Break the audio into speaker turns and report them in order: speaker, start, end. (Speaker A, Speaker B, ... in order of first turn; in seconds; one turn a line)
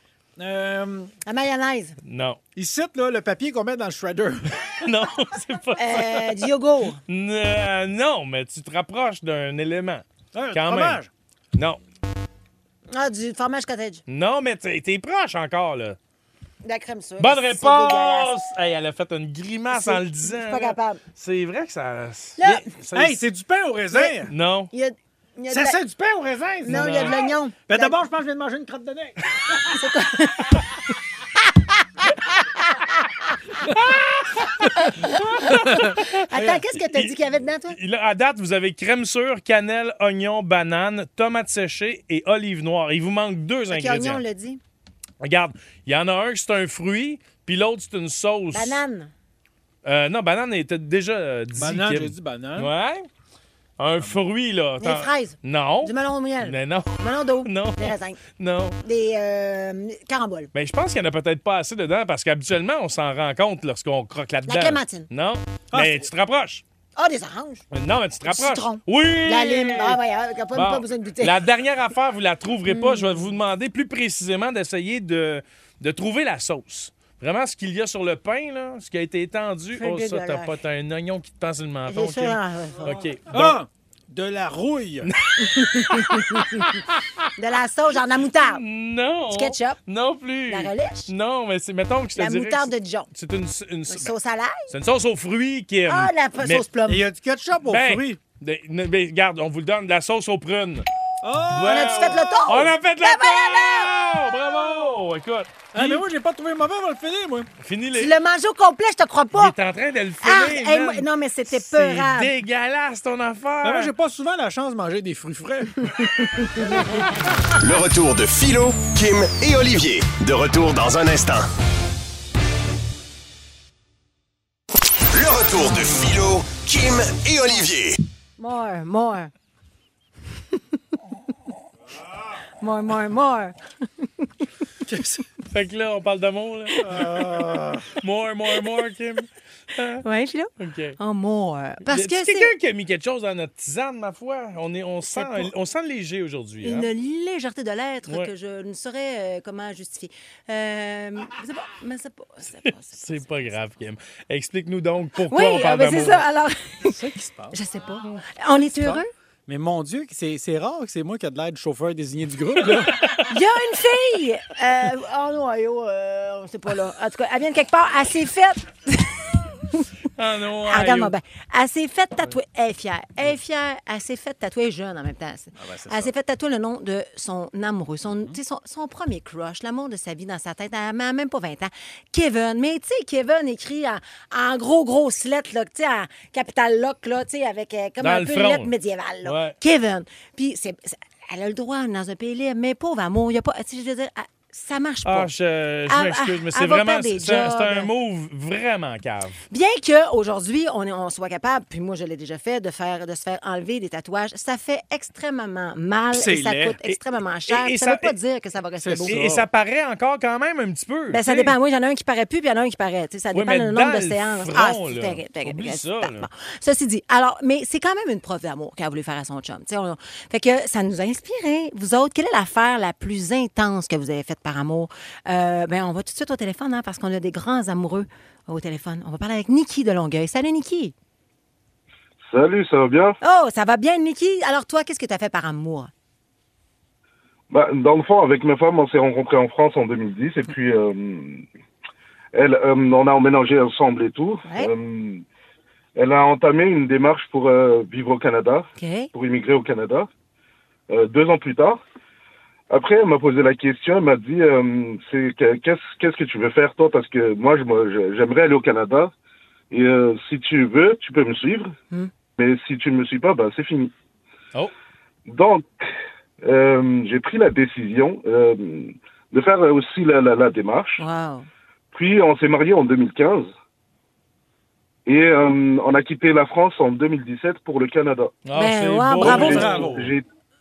Speaker A: 0.4-1.1
Speaker B: 1.2-2.0
Speaker C: 2.0-2.4
Speaker A: 2.5-4.6
Speaker C: 4.8-6.4
Speaker B: 5.8-7.0
Speaker C: 7.1-11.0
Speaker A: 10.3-11.1
Speaker C: 11.5-11.8
Speaker B: 12.9-14.0
Speaker C: 14.1-16.0
Speaker B: 16.6-18.3
Speaker C: 17.2-23.2
Speaker B: 19.7-21.0
Speaker B: 22.4-22.6
Speaker A: 22.9-24.3
Speaker C: 24.3-24.7
Speaker B: 24.7-25.8
Speaker A: 25.5-29.2
Speaker B: 26.6-28.0
Speaker C: 26.7-27.2
Speaker B: 29.7-30.6
Speaker B: 32.4-33.0
Speaker B: 34.6-37.8
Speaker C: 35.4-37.1
Speaker C: 37.7-44.2
Speaker B: 43.7-44.6
Speaker C: 45.2-48.8
Speaker B: 48.5-49.1
Speaker C: 49.8-53.1
Speaker A: 51.5-52.7
Speaker C: 53.8-58.8
Speaker B: 54.8-58.2
Speaker B: 58.8-60.5
Speaker C: 60.5-66.6
Speaker B: 64.5-65.1
Speaker A: 65.7-66.1
Speaker B: 67.0-67.6
Speaker C: 67.7-70.0
Speaker B: 68.2-71.3
Speaker C: 70.5-83.6
Speaker B: 72.7-73.1
Speaker B: 79.8-80.5
Speaker B: 81.9-82.9
Speaker A: 83.3-85.1
Speaker C: 85.0-86.5
Speaker B: 85.5-86.8
Speaker B: 87.3-88.6
Speaker C: 88.3-94.1
Speaker B: 89.3-89.8
Speaker B: 90.5-91.1
Speaker B: 92.2-93.1
Speaker B: 93.9-94.7
Speaker C: 94.7-96.6
Speaker B: 95.9-97.0
Speaker A: 96.9-98.2
Speaker C: 97.7-100.8
Speaker A: 101.2-102.4
Speaker C: 101.5-106.0
Speaker B: 101.6-103.9
Speaker A: 105.7-107.5
Speaker C: 107.6-108.1
Speaker B: 108.0-109.5
Speaker C: 109.3-113.9
Speaker B: 110.2-112.3
Speaker A: 113.6-116.4
Speaker D: 117.5-121.5
Speaker D: 125.1-128.0
Speaker B: 128.4-129.3
Speaker B: 132.6-134.3
Speaker A: 134.8-135.2
Speaker C: 135.5-137.4
Speaker A: 136.8-137.9
Speaker C: 138.0-140.0
Speaker B: 140.0-142.5
Speaker C: 140.6-141.0
Speaker C: 141.8-146.9
Speaker B: 145.1-145.5
Speaker B: 146.6-153.3
Speaker C: 152.6-156.2
Speaker B: 155.3-157.0
Speaker A: 156.8-157.6
Speaker B: 157.5-159.1
Speaker A: 158.7-163.1
Speaker B: 163.3-169.9
Speaker C: 170.2-171.1
Speaker B: 170.7-195.3
Speaker A: 175.6-176.1
Speaker C: 188.0-188.7
Speaker C: 189.2-189.6
Speaker C: 195.0-199.4
Speaker B: 195.9-197.9
Speaker B: 199.5-209.2
Speaker A: 206.1-206.8
Speaker C: 206.8-208.1
Speaker A: 208.8-209.4
Speaker C: 209.1-211.5
Speaker B: 211.1-230.9
Speaker C: 213.3-216.3
Speaker E: 232.3-233.2
Speaker B: 233.2-235.9
Speaker E: 237.5-241.4
Speaker E: 242.3-245.2
Speaker B: 244.4-244.7
Speaker E: 245.9-250.1
Speaker B: 248.8-249.1
Speaker E: 250.9-251.8
Speaker E: 252.7-259.1
Speaker E: 259.7-261.7
Speaker E: 262.4-263.9
Speaker E: 265.3-265.7
Speaker E: 266.4-271.0
Speaker B: 271.0-271.5
Speaker E: 271.9-273.5
Speaker E: 275.1-278.3
Speaker C: 278.4-280.1
Speaker B: 278.6-279.6
Speaker A: 279.2-280.0
Speaker E: 279.3-280.2